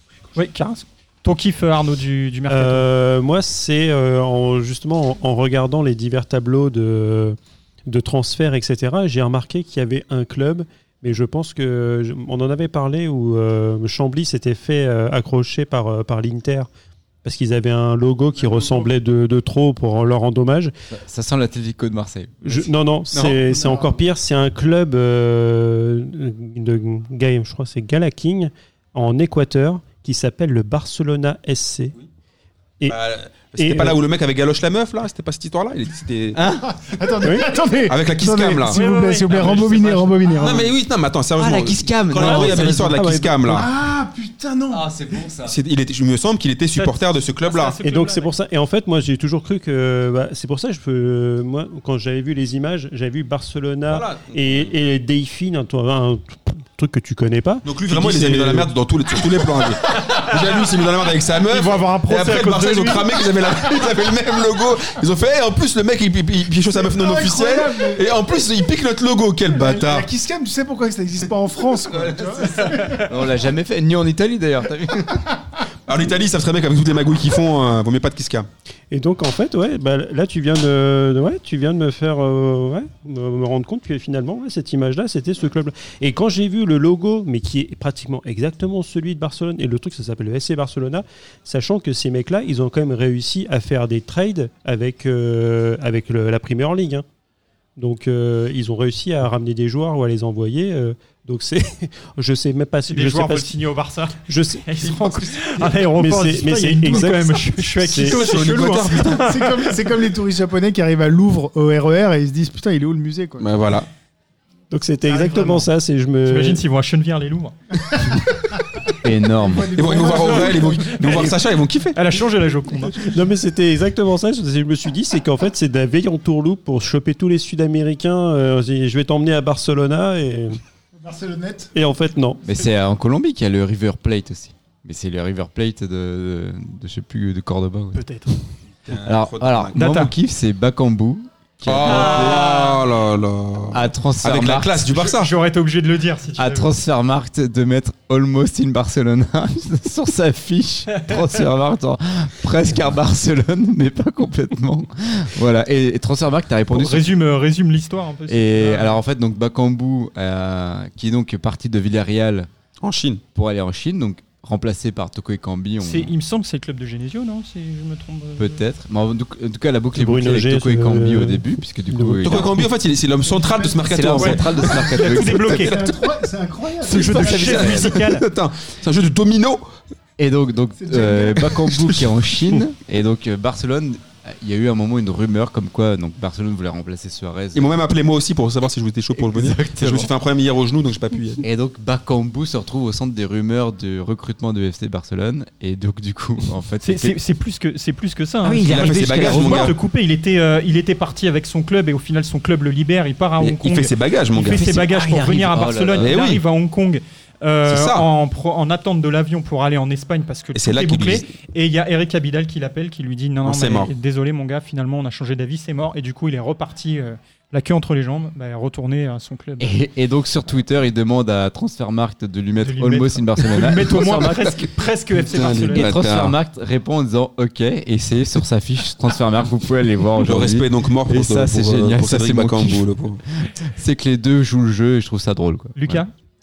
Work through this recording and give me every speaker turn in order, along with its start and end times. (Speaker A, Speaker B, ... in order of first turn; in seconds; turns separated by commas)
Speaker A: 0.3-2.8, Speaker B: 2.5-16.7, Speaker B: 17.2-20.7, Speaker C: 18.5-18.9, Speaker D: 20.9-23.4, Speaker B: 22.4-31.9, Speaker E: 32.9-36.4, Speaker B: 33.6-34.0, Speaker D: 36.3-36.8, Speaker C: 36.7-40.7, Speaker B: 37.2-37.6, Speaker E: 37.9-38.8, Speaker A: 38.7-40.3, Speaker E: 40.4-43.7, Speaker D: 41.4-43.6, Speaker B: 42.2-43.7, Speaker C: 43.5-44.9, Speaker D: 44.7-45.6, Speaker E: 45.4-47.8, Speaker A: 46.8-48.3, Speaker B: 47.8-58.7, Speaker E: 53.9-54.7, Speaker E: 57.6-70.1, Speaker A: 61.5-63.1, Speaker C: 66.8-68.1, Speaker C: 69.5-73.2, Speaker D: 71.9-75.3, Speaker E: 75.9-78.5, Speaker B: 78.9-97.0, Speaker B: 97.8-103.5, Speaker A: 102.9-109.8, Speaker B: 104.3-108.3, Speaker E: 108.0-109.3, Speaker C: 109.0-113.6, Speaker E: 113.4-113.9, Speaker B: 114.7-116.6, Speaker C: 115.0-115.7, Speaker A: 116.2-117.5, Speaker C: 117.9-121.2, Speaker D: 119.0-120.4, Speaker E: 119.7-122.0, Speaker D: 121.0-121.3, Speaker A: 121.9-123.1, Speaker B: 122.8-130.6, Speaker C: 131.0-131.7, Speaker B: 131.7-132.4, Speaker D: 132.4-138.0, Speaker A: 137.9-138.3, Speaker E: 138.9-139.8, Speaker D: 138.9-142.8, Speaker A: 139.8-140.1, Speaker E: 141.6-145.3, Speaker A: 141.8-142.8, Speaker D: 143.7-144.7, Speaker A: 144.9-146.7, Speaker D: 146.4-157.1, Speaker A: 156.7-159.0, Speaker D: 158.3-162.5, Speaker E: 162.8-163.2, Speaker D: 163.3-166.1, Speaker A: 165.8-168.6, Speaker D: 168.4-172.7, Speaker B: 169.9-172.5, Speaker E: 172.2-174.6, Speaker C: 173.3-178.0, Speaker D: 173.8-175.9, Speaker A: 174.2-175.8, Speaker A: 176.8-178.2, Speaker E: 176.9-179.6, Speaker D: 180.2-187.7, Speaker C: 180.8-181.6, Speaker E: 187.5-191.4, Speaker D: 189.1-190.1, Speaker D: 191.4-197.2, Speaker A: 196.8-219.8, Speaker D: 198.4-199.7, Speaker E: 198.6-199.7, Speaker E: 203.4-204.7, Speaker D: 204.5-206.1, Speaker E: 205.9-206.4, Speaker E: 207.7-208.1, Speaker E: 210.5-211.3, Speaker E: 213.4-213.9, Speaker D: 219.6-224.7, Speaker A: 222.6-226.1, Speaker E: 225.2-226.3, Speaker D: 225.4-236.0, Speaker E: 230.2-233.2, Speaker A: 235.8-236.1